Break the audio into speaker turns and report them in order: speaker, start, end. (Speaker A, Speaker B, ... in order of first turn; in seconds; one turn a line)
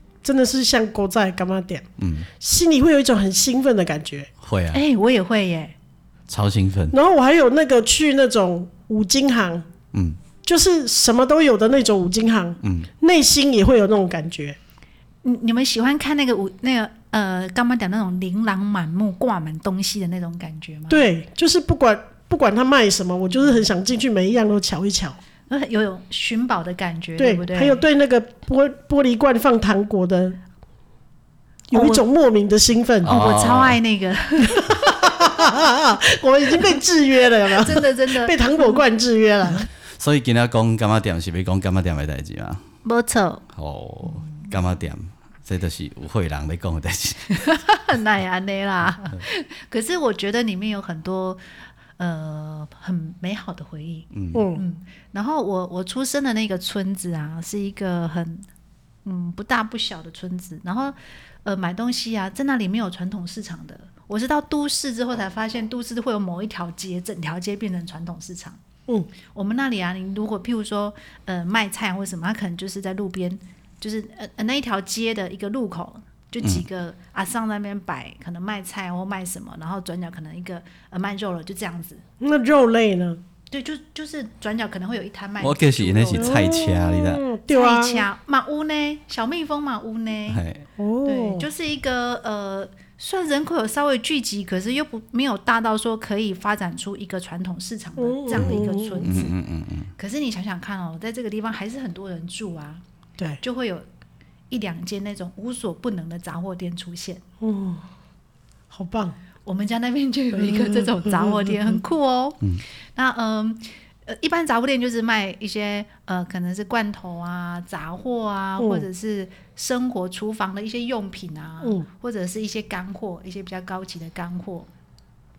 Speaker A: 0.2-1.9
Speaker B: 2.0-2.3
Speaker A: 2.4-4.3
Speaker B: 4.4-4.8
Speaker C: 4.7-5.7
Speaker B: 6.3-7.0
Speaker A: 6.9-9.7
Speaker B: 9.9-10.2
Speaker A: 10.4-14.6
Speaker B: 12.6-12.9
Speaker C: 15.2-21.1
Speaker A: 20.9-25.2
Speaker C: 25.5-27.8
Speaker A: 27.2-30.4
Speaker A: 31.7-33.2
Speaker C: 31.7-32.0
Speaker B: 33.0-33.8
Speaker C: 33.0-35.1
Speaker A: 34.4-39.7
Speaker C: 37.6-38.8
Speaker B: 40.0-42.6
Speaker C: 42.8-43.4
Speaker B: 43.5-47.4
Speaker C: 47.3-51.4
Speaker C: 52.0-58.5
Speaker B: 54.1-54.4
Speaker A: 54.3-54.6
Speaker C: 59.0-68.6
Speaker C: 69.3-82.0
Speaker A: 82.2-83.2
Speaker C: 83.5-86.6
Speaker B: 85.4-87.2
Speaker A: 86.1-88.0
Speaker C: 87.5-90.4
Speaker B: 90.3-90.6
Speaker A: 90.8-91.5
Speaker C: 91.0-99.3
Speaker A: 98.0-99.3
Speaker B: 98.3-99.9
Speaker C: 100.0-102.8
Speaker C: 103.4-103.8
Speaker C: 104.5-107.2
Speaker A: 107.4-107.8
Speaker A: 108.7-109.2
Speaker C: 109.4-112.4
Speaker A: 110.3-111.8
Speaker C: 113.0-124.7
Speaker A: 118.6-118.8
Speaker A: 121.6-121.9